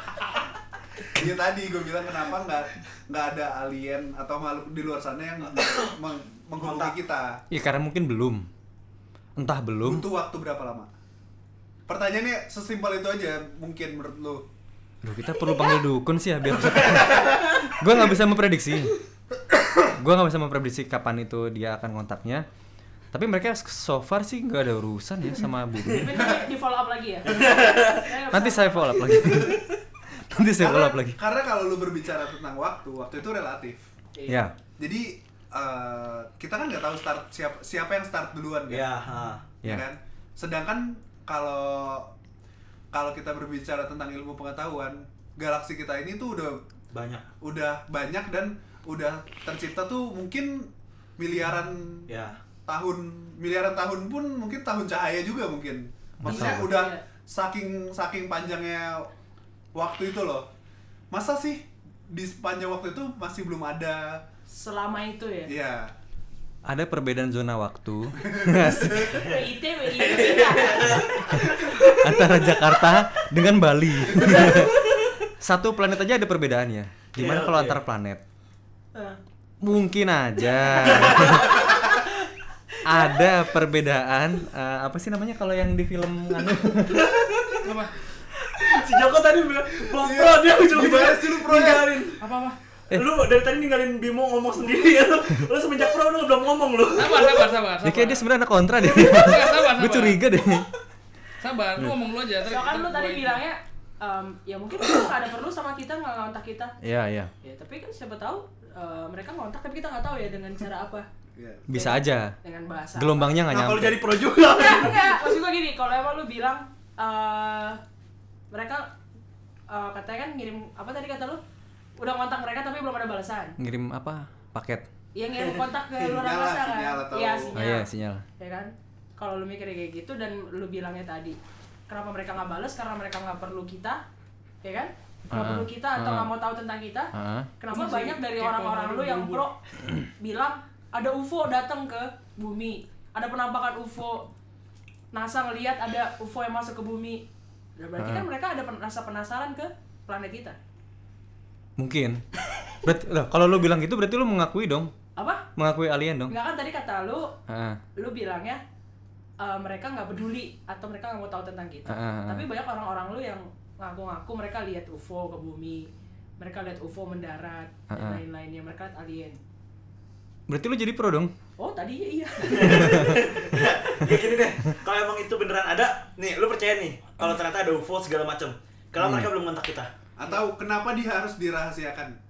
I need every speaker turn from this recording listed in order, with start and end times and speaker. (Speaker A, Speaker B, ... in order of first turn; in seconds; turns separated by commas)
Speaker A: 1.1-7.4, Speaker B: 6.6-6.9, Speaker C: 7.5-8.5, Speaker C: 9.4-10.1, Speaker A: 9.8-10.9, Speaker A: 11.9-14.4, Speaker C: 15.0-19.0, Speaker B: 16.9-17.4, Speaker C: 19.9-22.5, Speaker C: 23.1-26.2, Speaker D: 25.9-29.4, Speaker B: 27.3-28.1, Speaker C: 28.3-29.6, Speaker C: 30.2-31.2, Speaker A: 30.6-33.9, Speaker C: 34.3-34.5, Speaker A: 34.8-38.9, Speaker B: 38.7-39.4, Speaker A: 39.6-42.1, Speaker A: 42.9-46.6, Speaker B: 46.9-47.2, Speaker A: 47.4-52.1, Speaker B: 52.1-52.4, Speaker A: 52.6-59.1, Speaker C: 56.2-56.7, Speaker D: 56.2-57.0, Speaker A: 59.7-60.5, Speaker A: 61.1-64.2, Speaker D: 64.5-65.5, Speaker A: 65.5-65.9, Speaker C: 66.7-69.2, Speaker A: 68.2-69.3, Speaker D: 69.1-71.1, Speaker B: 69.9-72.2, Speaker C: 71.3-74.8, Speaker B: 74.3-74.7, Speaker C: 75.4-78.2, Speaker B: 77.2-77.8, Speaker C: 79.6-81.6, Speaker B: 80.8-81.4, Speaker D: 81.2-82.1, Speaker C: 82.8-87.1, Speaker D: 82.9-83.2, Speaker B: 86.9-87.7, Speaker E: 87.6-87.9, Speaker B: 88.4-92.2, Speaker A: 90.0-92.0, Speaker E: 92.2-92.6, Speaker B: 92.9-97.4, Speaker E: 96.9-98.2, Speaker C: 97.8-100.6, Speaker E: 98.8-100.3, Speaker E: 101.4-103.4, Speaker D: 102.4-106.7, Speaker C: 106.8-107.3, Speaker D: 107.4-111.0, Speaker A: 111.4-111.7, Speaker C: 111.7-112.3, Speaker D: 111.7-113.4, Speaker C: 113.0-114.0, Speaker B: 113.5-115.2, Speaker D: 114.5-117.8, Speaker D: 118.5-118.9, Speaker D: 119.7-121.4, Speaker D: 122.0-123.6, Speaker C: 123.6-124.9, Speaker D: 125.1-127.9, Speaker A: 126.0-127.5, Speaker C: 127.5-128.2, Speaker D: 128.4-131.4, Speaker D: 131.9-134.0, Speaker D: 134.6-144.3, Speaker C: 135.3-136.3, Speaker C: 137.1-137.5, Speaker E: 137.7-139.4, Speaker D: 145.1-147.2, Speaker D: 147.8-150.6, Speaker C: 148.0-148.3, Speaker C: 151.8-152.3, Speaker C: 152.8-154.9, Speaker D: 155.2-155.4, Speaker C: 155.6-156.4, Speaker D: 156.3-157.4, Speaker C: 157.5-157.8, Speaker D: 157.9-158.6, Speaker D: 159.4-169.4, Speaker C: 161.9-162.4, Speaker C: 167.9-168.2, Speaker C: 170.5-171.3, Speaker D: 171.6-173.2, Speaker B: 172.4-179.9, Speaker C: 172.6-173.2, Speaker C: 179.0-179.3, Speaker A: 180.2-182.1